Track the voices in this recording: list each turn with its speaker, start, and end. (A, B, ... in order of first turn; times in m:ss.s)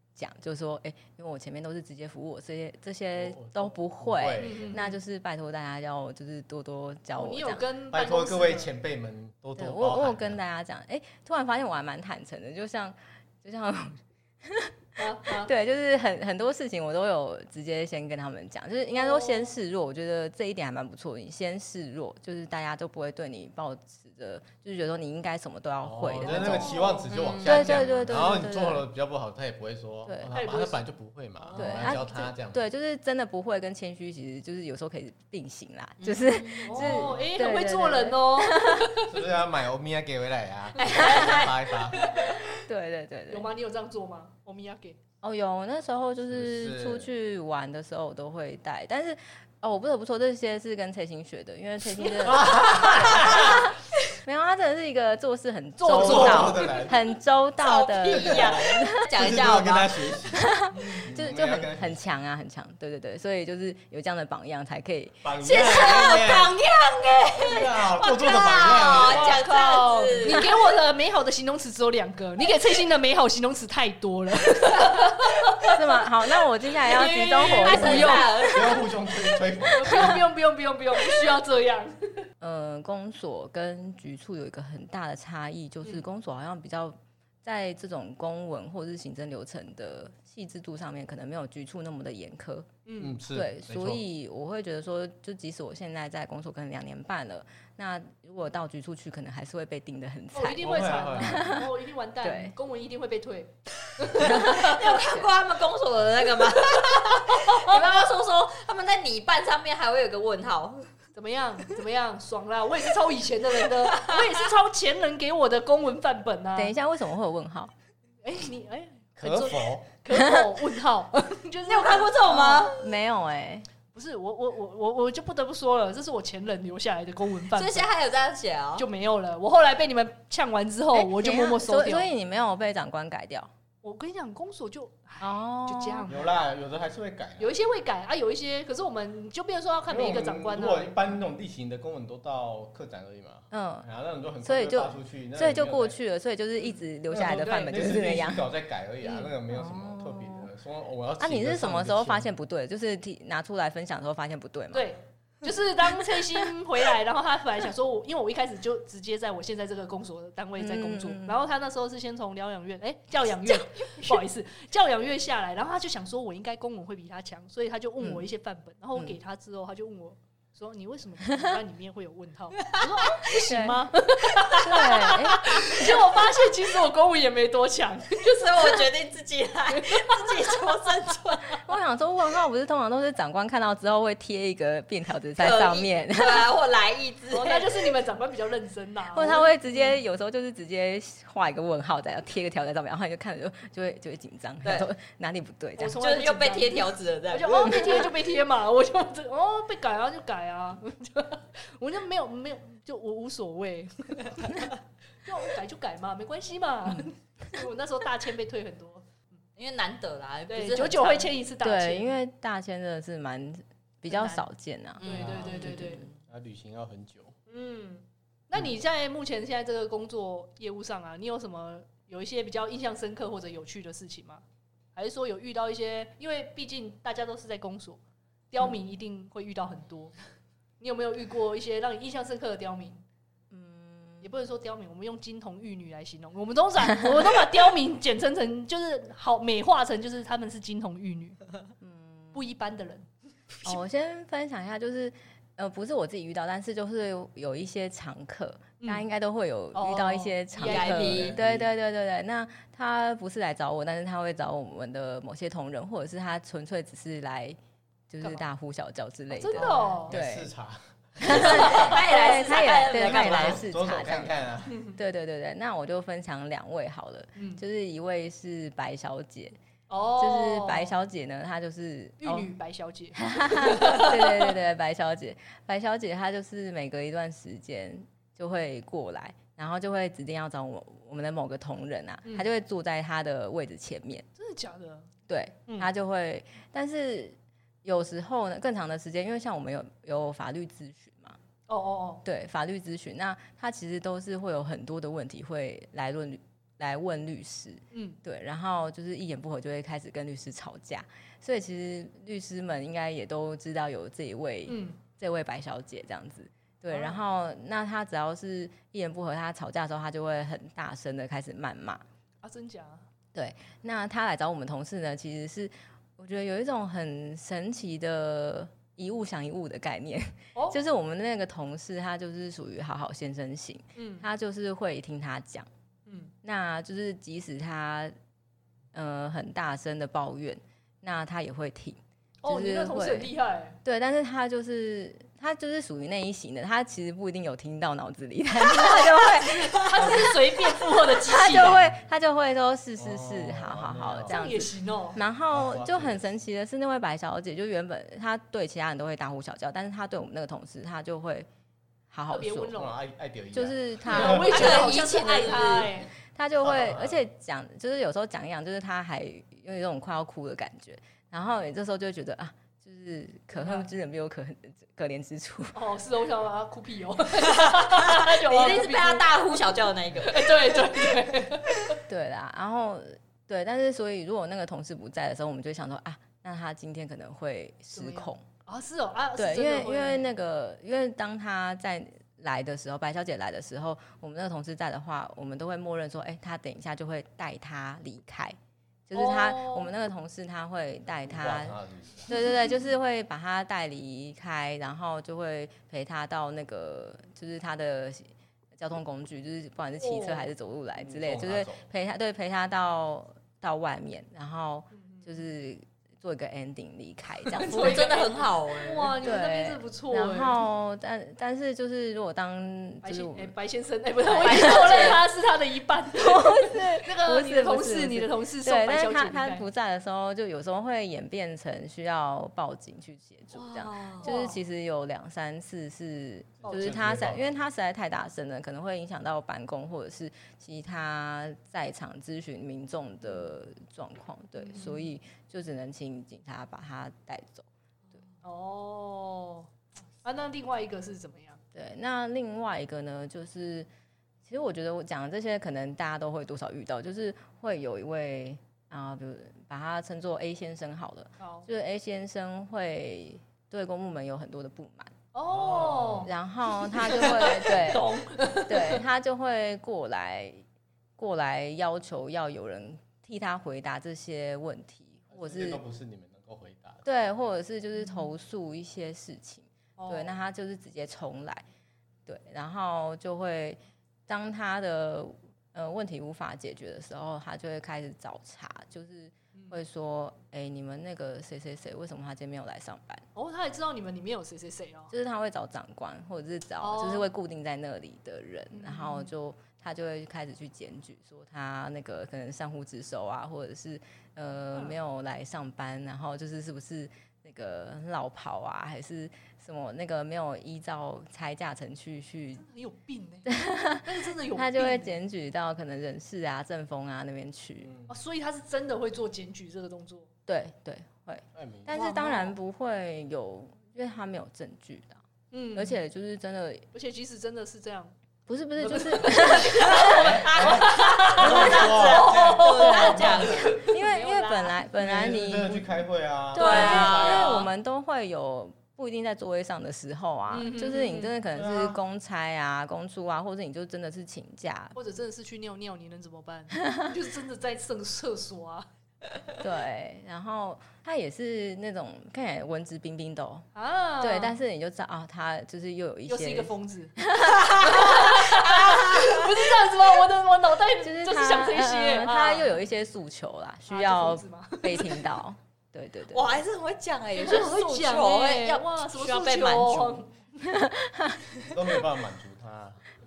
0:00.2-0:07.6 A
0:03.1-0:04.8 B
0:04.4-0:05.0 C
0:07.1-0:08.7 C
0:07.9-0:10.4 B
0:09.6-0:26.8 A
0:15.0-0:15.5 C
0:18.9-0:19.5 C
0:25.8-0:32.6 B
0:26.2-0:27.1 C
0:27.1-0:28.1 D
0:27.4-0:28.8 A
0:30.0-0:30.3 A
0:30.3-0:30.8 C
0:31.4-0:32.0 C
0:31.6-0:38.9 A
0:36.0-0:36.9 D
0:36.6-0:39.2 C
0:36.8-0:37.3 B
0:39.0-0:42.0 B
0:40.8-0:42.4 D
0:40.8-0:41.1 C
0:42.0-0:42.3 C
0:42.6-0:43.5 A
0:43.3-0:45.0 C
0:45.2-0:59.1 A
0:46.3-0:47.1 B
0:51.9-0:53.6 C
0:52.2-0:53.7 B
0:55.8-0:56.8 C
0:55.9-0:57.0 B
0:57.6-1:00.2 D
0:58.1-1:02.0 B
1:00.3-1:05.2 A
1:00.7-1:01.0 C
1:05.2-1:06.5 B
1:05.4-1:10.5 D
1:07.3-1:09.4 B
1:08.9-1:15.7 C
1:15.7-1:18.2 A
1:16.8-1:18.8 C
1:16.9-1:18.9 D
1:18.0-1:20.2 B
1:19.7-1:22.2 C
1:22.4-1:32.7 A
1:32.8-1:33.2 C
1:33.0-1:34.0 B
1:33.3-1:41.7 A
1:40.3-1:43.5 C
1:40.6-1:41.5 B
1:42.2-1:42.5 A
1:44.0-1:50.9 D
1:44.1-1:45.3 A
1:47.4-1:47.7 C
1:51.1-1:56.7 C
1:53.9-1:54.3 D
1:56.5-1:57.7 A
1:58.2-2:02.7 C
1:59.2-1:59.9 B
2:00.1-2:00.4 A
2:01.7-2:02.8 D
2:02.7-2:03.7 A
2:03.9-2:07.9 C
2:07.5-2:08.8 D
2:08.8-2:12.1 C
2:10.9-2:13.5 A
2:13.8-2:16.3 C
2:15.2-2:16.1 A
2:16.1-2:17.6 B
2:17.4-2:20.9 C
2:19.9-2:26.0 B
2:23.5-2:23.9 A
2:24.4-2:28.4 A
2:27.1-2:32.3 B
2:27.3-2:27.7 C
2:29.1-2:30.5 A
2:31.2-2:34.9 A
2:34.7-2:58.9 C
2:40.6-2:41.4 A
2:53.5-2:53.9 A
2:54.5-2:55.8 A
2:58.2-3:01.6 D
2:59.7-3:00.9 C
3:01.6-3:06.5 A
3:05.4-3:07.9 D
3:07.3-3:10.0 C
3:09.1-3:16.0 A
3:15.8-3:24.7 C
3:15.9-3:18.0 D
3:17.5-3:17.9 A
3:25.2-3:29.0 C
3:29.6-3:31.3 D
3:30.5-3:32.2 C
3:31.6-3:36.1 A
3:34.1-3:34.4 C
3:35.0-3:36.0 C
3:35.0-3:37.3 B
3:37.5-3:44.4 C
3:45.0-3:50.1 C
3:50.8-3:53.0 C
3:53.5-3:54.3 A
3:54.2-4:01.4 C
4:01.8-4:02.4 A
4:02.3-4:03.1 C
4:03.6-4:17.6 A
4:08.8-4:09.0 C
4:09.7-4:11.3 C
4:10.6-4:11.4 D
4:11.2-4:11.7 B
4:18.1-4:20.5 A
4:19.3-4:20.2 C
4:19.6-4:22.0 B
4:21.2-4:24.3 A
4:21.2-4:23.6 D
4:22.9-4:24.9 B
4:24.9-4:29.6 A
4:27.4-4:27.6 C
4:29.9-4:30.9 C
4:30.2-4:32.5 A
4:32.2-4:34.6 C
4:33.1-4:44.2 A
4:44.4-4:45.1 C
4:45.3-4:51.4 A
4:51.7-4:52.2 C
4:52.2-5:12.0 A
4:57.9-4:58.2 C
5:04.7-5:05.0 C
5:06.9-5:07.2 C
5:12.4-5:13.0 C
5:13.3-5:25.7 A
5:24.0-5:24.2 C
5:26.1-5:26.3 C
5:26.4-5:28.1 A
5:28.9-5:33.3 A
5:32.4-5:33.8 C
5:33.8-5:40.2 A
5:38.8-5:40.1 D
5:39.4-5:41.9 C
5:41.2-5:51.5 A
5:43.0-5:44.4 B
5:44.3-5:45.2 C
5:45.5-5:46.3 B
5:52.1-5:52.8 A
5:52.3-5:53.0 C
5:52.7-5:54.8 B
5:53.5-5:55.0 A
5:54.0-5:56.1 C
5:54.5-5:55.9 D
5:56.3-6:05.8 A
5:56.6-5:57.2 B
6:03.5-6:03.9 C
6:05.7-6:09.3 C
6:07.4-6:10.5 D
6:10.2-6:12.0 C
6:12.1-6:18.4 A
6:17.9-6:20.2 C
6:19.4-6:28.6 A
6:29.1-6:31.8 A
6:29.1-6:29.9 C
6:31.2-6:32.5 B
6:32.3-6:48.1 A
6:40.0-6:40.5 C
6:41.0-6:41.8 B
6:44.9-6:45.4 C
6:47.5-6:50.6 C
6:47.7-6:49.2 D
6:49.2-6:53.5 A
6:53.0-6:59.7 C
6:54.3-6:55.1 A
6:54.3-6:55.2 D
6:56.1-7:17.7 A
7:03.5-7:04.3 D
7:04.2-7:04.6 C
7:06.6-7:07.5 B
7:06.6-7:07.0 C
7:14.6-7:15.1 C
7:18.4-7:19.7 C
7:20.2-7:21.6 C
7:21.7-7:23.9 A
7:24.4-7:35.1 A
7:31.4-7:31.7 C
7:35.3-7:39.0 C
7:35.4-7:36.3 B
7:36.2-7:40.6 A
7:41.2-7:45.8 A
7:45.3-7:47.0 B
7:47.0-7:51.6 A
7:50.0-7:50.3 C
7:52.2-8:03.2 A
8:03.3-8:05.1 C
8:05.1-8:22.6 A
8:06.8-8:07.3 C
8:08.7-8:09.3 C
8:22.6-8:25.2 C
8:23.4-8:27.9 A
8:27.8-8:28.1 B
8:28.1-8:30.3 C
8:30.5-8:36.8 A
8:31.5-8:31.9 B
8:31.9-8:32.5 C
8:35.5-8:36.0 C
8:36.9-8:38.1 C
8:38.5-8:40.3 A
8:38.8-8:44.9 C
8:39.3-8:43.9 D
8:40.1-8:43.6 B
8:42.8-8:54.9 A
8:45.0-8:47.7 B
8:46.6-8:47.7 D
8:50.5-8:51.4 C
8:51.5-8:52.0 B
8:54.9-8:58.9 C
8:59.6-9:03.6 A
9:03.7-9:04.6 C
9:04.2-9:08.0 A
9:06.3-9:07.2 C
9:07.6-9:09.5 D
9:07.7-9:12.7 C
9:11.0-9:16.6 A
9:13.9-9:15.3 C
9:16.3-9:20.2 D
9:17.4-9:20.3 C
9:20.6-9:21.4 A
9:21.6-9:23.0 B